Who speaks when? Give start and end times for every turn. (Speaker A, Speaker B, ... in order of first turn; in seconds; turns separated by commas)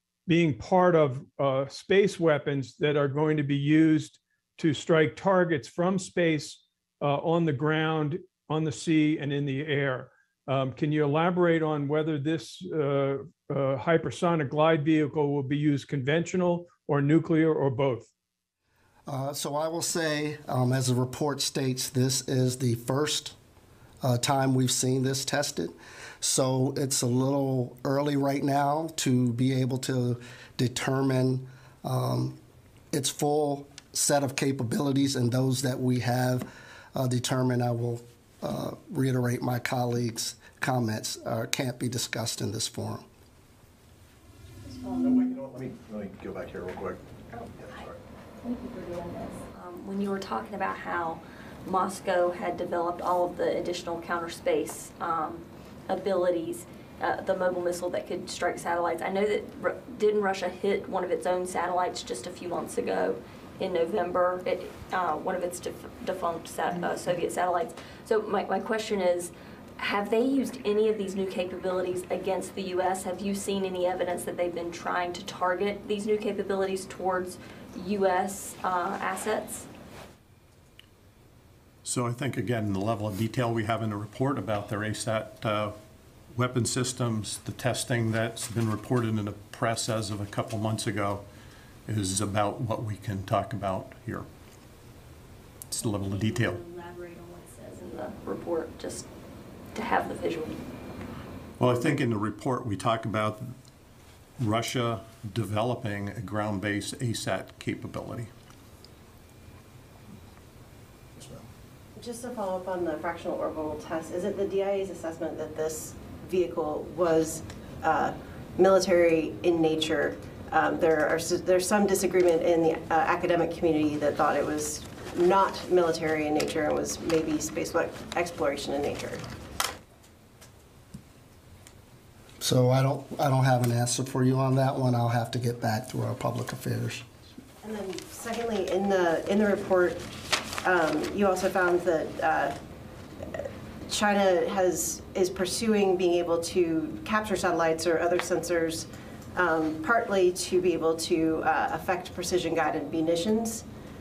Speaker A: 0.3-18.1, Speaker B: 19.1-23.4, Speaker B: 24.0-32.4, Speaker B: 32.9-43.0, Speaker C: 45.0-47.0, Speaker C: 47.5-48.0, Speaker D: 48.4-79.7, Speaker E: 81.8-85.8, Speaker E: 86.3-91.2, Speaker E: 91.9-94.3, Speaker E: 95.7-96.6, Speaker D: 95.8-99.1, Speaker D: 99.7-100.6, Speaker E: 101.6-103.5, Speaker E: 104.4-108.3, Speaker C: 111.2-111.4, Speaker F: 112.0-129.2, Speaker B: 132.4-137.0, Speaker F: 137.6-140.0, Speaker F: 140.6-142.6, Speaker F: 143.3-153.6